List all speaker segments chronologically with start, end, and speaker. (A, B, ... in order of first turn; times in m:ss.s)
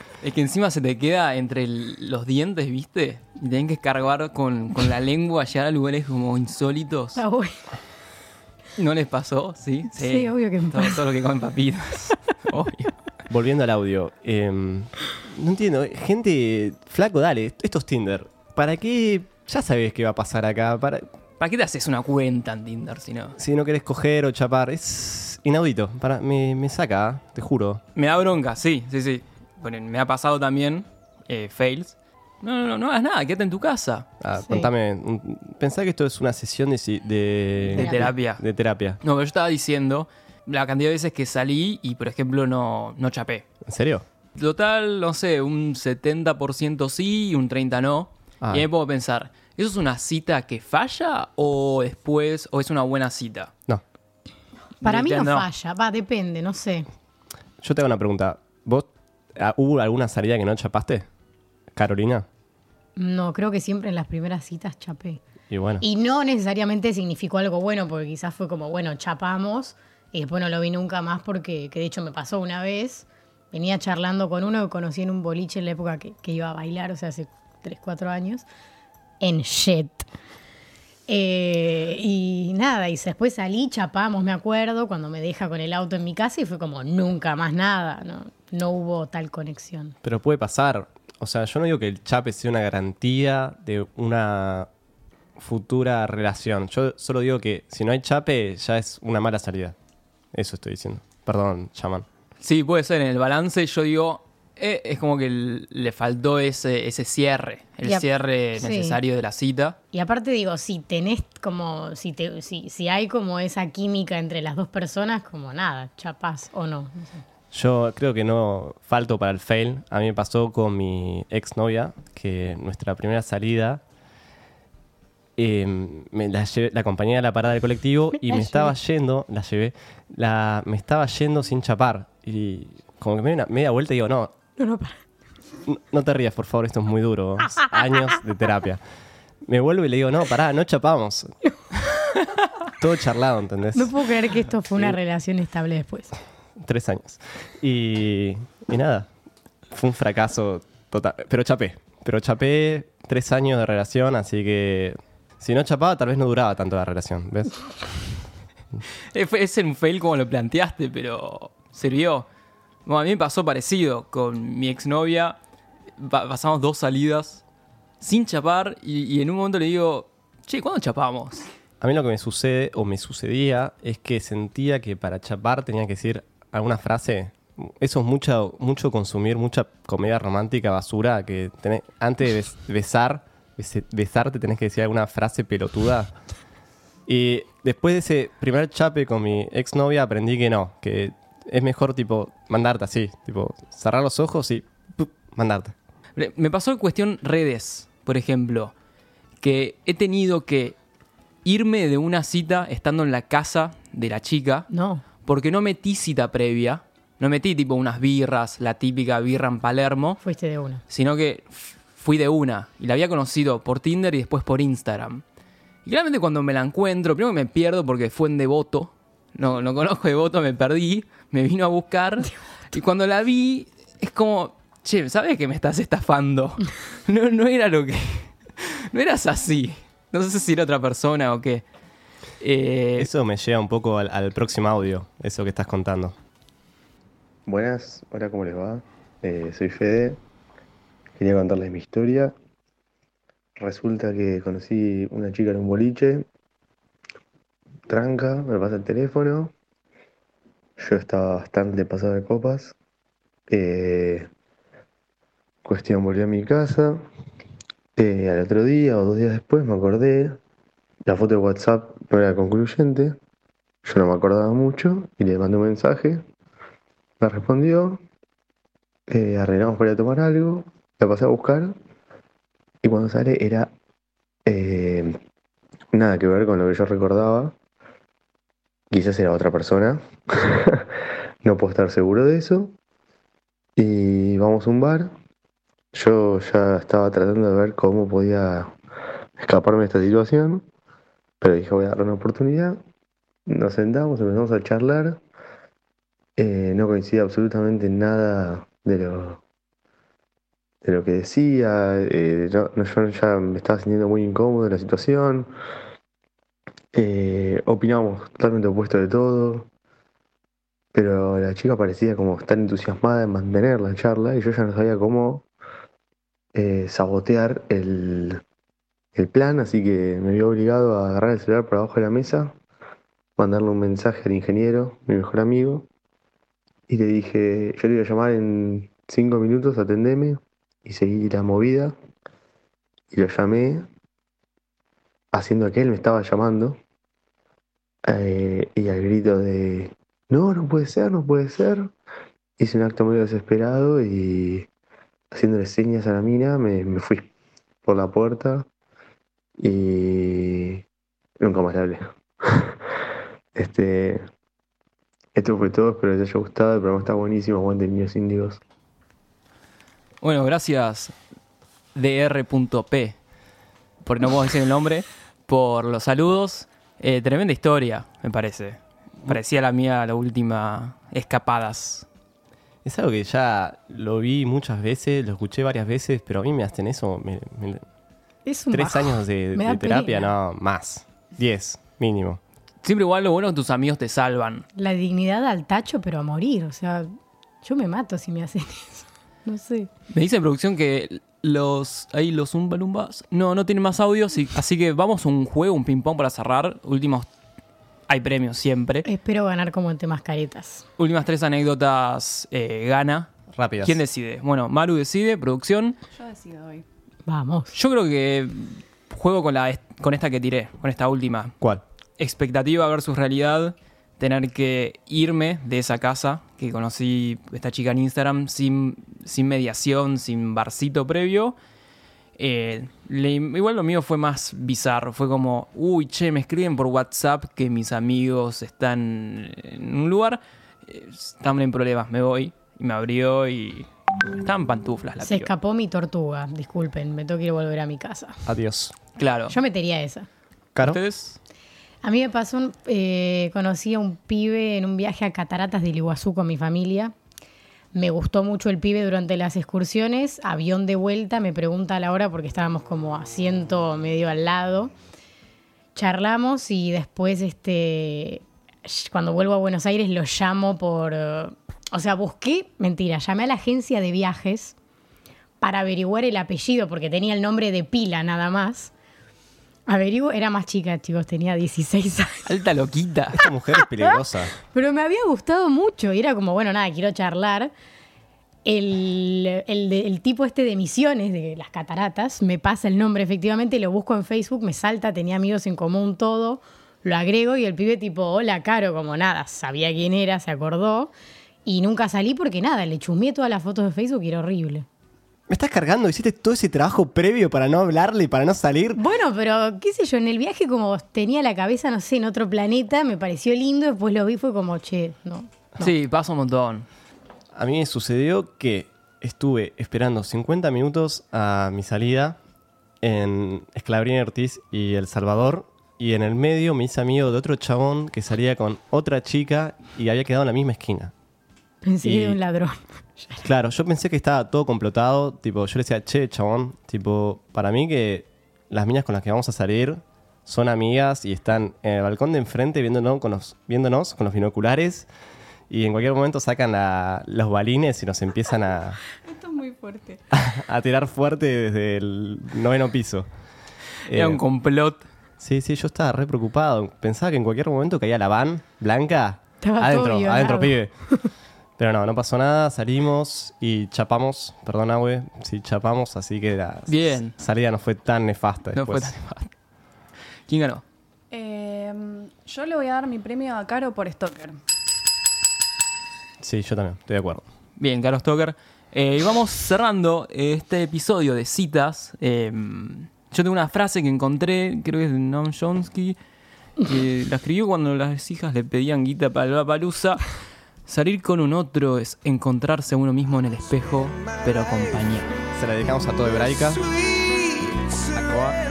0:00.2-0:07.2 A
0:07.2-0:07.6 B
0:08.8-0:12.9 A
0:10.0-0:11.0 B
0:13.3-0:21.0 C
0:21.4-0:23.4 A
0:23.4-0:27.8 C
0:28.0-0:34.1 A
0:34.2-0:39.0 C
0:34.4-0:34.7 B
0:37.7-0:38.4 A
0:37.8-0:38.1 B
0:39.0-0:43.4 A
0:43.6-0:44.0 C
0:44.3-0:53.5 A
0:48.4-0:48.6 C
0:54.8-0:56.9 B
0:54.8-0:55.5 A
0:57.6-1:01.1 C
1:01.7-1:02.2 C
1:03.0-1:05.2 B
1:05.5-1:05.8 C
1:05.8-1:18.4 B
1:19.2-1:20.1 B
1:21.1-1:30.0 B
1:30.0-1:34.7 C
1:35.4-1:39.8 C
1:40.3-1:42.0 C
1:42.4-1:49.8 A
1:48.6-1:49.0 B
1:49.9-1:57.2 B
1:57.5-2:03.8 C
2:05.4-2:14.3 C
2:08.3-2:08.7 B
2:14.6-2:15.0 B
2:15.6-2:18.8 C
2:19.4-2:21.3 C
2:22.7-2:23.9 C
2:23.7-2:26.1 B
2:24.7-2:25.0 C
2:26.6-2:29.1 C
2:29.7-2:37.6 C
2:39.1-2:42.3 A
2:42.8-2:45.4 A
2:46.0-2:47.4 A
2:48.0-2:51.5 A
2:51.8-3:06.1 C
3:07.0-3:15.7 C
3:16.2-3:18.7 A
3:19.4-3:20.8 A
3:21.4-3:24.7 A
3:24.7-3:25.0 B
3:25.2-3:30.2 A
3:30.2-3:30.8 B
3:30.9-3:35.2 A
3:35.8-3:51.6 A
3:52.4-3:53.1 A
3:53.0-3:56.2 C
3:57.4-4:00.2 D
4:01.2-4:02.3 D
4:03.6-4:06.2 D
4:07.9-4:09.5 D
4:10.8-4:12.7 D
4:13.5-4:14.3 D
4:15.6-4:17.0 D
4:18.0-4:20.4 D
4:21.0-4:23.2 D
4:23.8-4:26.2 D
4:27.2-4:28.0 D
4:29.1-4:31.7 D
4:32.8-4:33.7 D
4:34.4-4:35.2 D
4:35.9-4:37.5 D
4:38.9-4:40.8 D
4:41.4-4:42.7 D
4:43.8-4:45.1 D
4:45.9-4:48.7 D
4:49.4-4:50.6 D
4:51.4-4:52.8 D
4:53.5-4:55.2 D
4:56.4-4:59.4 D
5:00.8-5:05.5 D
5:06.9-5:09.7 D
5:10.9-5:15.4 D
5:16.5-5:18.4 D
5:19.1-5:22.5 D
5:23.4-5:25.8 D
5:26.9-5:31.9 D
5:33.1-5:33.8 D
5:35.3-5:36.8 D
5:38.0-5:41.9 D
5:42.6-5:44.7 D
5:45.3-5:47.3 D
5:47.8-5:48.6 D
5:49.6-5:50.8 D
5:51.4-5:52.7 D
5:53.5-5:54.2 D
5:55.3-5:58.6 D
6:00.2-6:01.1 A
6:01.9-6:03.2 A
6:04.0-6:12.1 A
6:12.8-6:17.8 C
6:18.4-6:20.3 B
6:18.7-6:22.4 C
6:22.8-6:24.6 A
6:24.8-6:27.1 B
6:27.6-6:29.9 B
6:30.1-6:37.3 A
6:38.1-6:39.0 A
6:39.0-6:40.8 B
6:41.0-6:43.3 A
6:43.5-6:44.0 C
6:43.8-6:46.0 A
6:46.1-6:46.8 E
6:47.2-6:47.7 B
6:47.7-6:51.6 A
6:52.2-7:01.6 A
7:02.4-7:15.5 A
7:15.2-7:18.4 B
7:18.4-7:18.9 C
7:19.2-7:19.6 A
7:19.5-7:20.3 B
7:20.7-7:21.0 C
7:20.8-7:21.4 A
7:22.0-7:27.1 B
7:27.9-7:34.9 B
7:35.9-7:44.7 B
7:45.6-7:48.9 B
7:49.9-7:52.5 B
7:52.4-7:53.4 A
7:53.3-7:54.5 C
7:53.8-7:57.7 B
7:58.6-8:11.1 B
8:11.6-8:14.9 B
8:15.5-8:19.0 C
8:19.0-8:25.9 B
8:25.8-8:26.9 A
8:27.5-8:32.4 C
8:33.0-8:41.1 C
8:41.8-8:43.4 B
8:42.0-8:42.4 C
8:43.4-8:55.1 C
8:55.7-8:59.0 C
8:59.2-9:00.2 E
9:00.3-9:03.3 C
9:04.1-9:04.4 C
9:04.1-9:05.0 A
9:05.4-9:10.9 C
9:09.6-9:11.3 B
9:11.8-9:19.2 C
9:16.9-9:17.3 A
9:18.7-9:19.5 A
9:20.5-9:20.8 A
9:21.3-9:24.6 E
9:26.4-9:27.4 C
9:27.8-9:36.2 A
9:36.8-9:40.2 A
9:40.8-9:45.3 A
9:45.5-9:46.8 C
9:48.1-9:48.6 A